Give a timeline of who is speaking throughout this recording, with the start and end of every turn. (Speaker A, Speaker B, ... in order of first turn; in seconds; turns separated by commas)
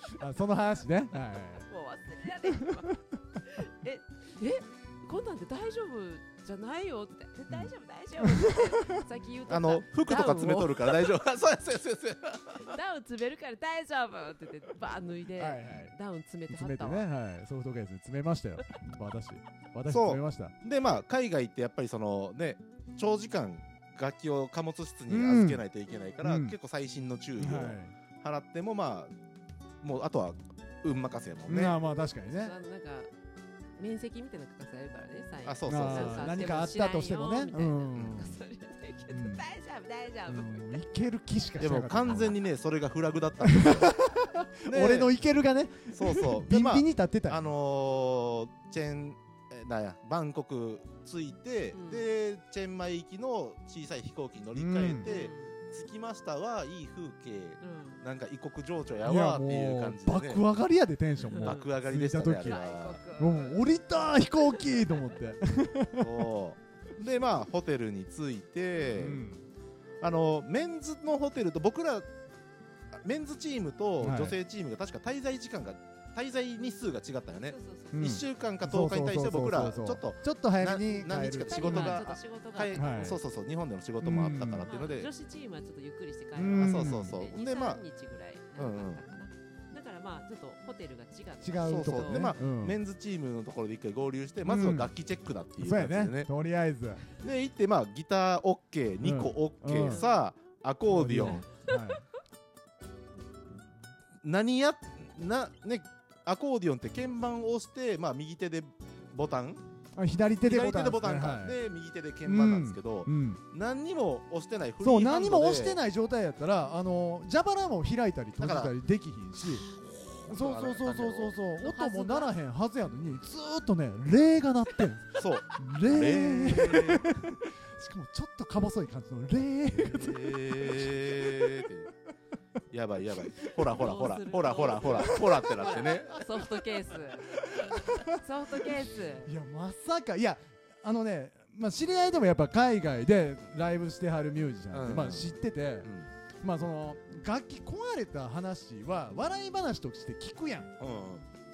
Speaker A: 0.2-1.7, Speaker B: 1.6-11.0, Speaker A: 2.5-2.8, Speaker A: 7.5-9.0, Speaker C: 9.5-12.7, Speaker B: 12.6-17.1, Speaker A: 15.4-15.9, Speaker A: 16.5-20.6, Speaker C: 19.9-29.1, Speaker A: 25.1-25.6, Speaker B: 25.9-26.2, Speaker A: 26.2-26.6, Speaker A: 27.4-27.9, Speaker C: 29.8-31.8, Speaker A: 31.5-32.5, Speaker B: 32.3-33.1, Speaker B: 33.8-40.7, Speaker C: 35.5-36.4, Speaker A: 35.6-38.2, Speaker C: 37.9-38.3, Speaker A: 39.1-39.5, Speaker A: 40.3-42.4, Speaker C: 41.6-43.9, Speaker A: 43.4-47.5, Speaker C: 44.6-45.1, Speaker C: 45.9-60.4, Speaker B: 51.7-52.1, Speaker A: 54.5-55.1, Speaker B: 55.0-55.5, Speaker B: 57.6-58.0, Speaker A: 59.0-62.6, Speaker B: 61.2-61.7, Speaker C: 61.3-63.0, Speaker B: 62.4-65.0, Speaker A: 63.1-66.1, Speaker C: 66.0-69.3, Speaker A: 69.0-69.4, Speaker C: 70.0-72.1, Speaker C: 72.9-85.1, Speaker A: 74.0-74.4, Speaker B: 77.5-78.2, Speaker A: 77.9-82.0, Speaker B: 81.3-83.2, Speaker A: 82.7-83.2, Speaker A: 84.0-84.7, Speaker B: 84.6-92.3, Speaker A: 86.3-87.2, Speaker C: 86.5-87.8, Speaker C: 88.5-89.0, Speaker A: 91.4-92.8, Speaker C: 91.6-96.3, Speaker A: 94.4-94.9, Speaker A: 95.6-97.0, Speaker C: 97.2-101.4, Speaker A: 99.0-100.0, Speaker B: 99.8-100.2, Speaker A: 100.8-102.0, Speaker B: 101.2-101.5, Speaker C: 104.2-109.6, Speaker A: 110.0-111.6, Speaker C: 110.4-115.8, Speaker A: 112.2-113.4, Speaker A: 114.8-119.6, Speaker C: 118.4-118.7, Speaker C: 119.5-121.3, Speaker A: 120.3-131.5, Speaker B: 121.6-122.3, Speaker C: 125.2-127.0, Speaker C: 129.7-131.9, Speaker C: 132.7-136.1, Speaker A: 133.2-133.6, Speaker B: 133.7-139.3, Speaker A: 134.8-145.9, Speaker C: 144.7-146.1, Speaker A: 146.4-150.7, Speaker C: 150.8-151.2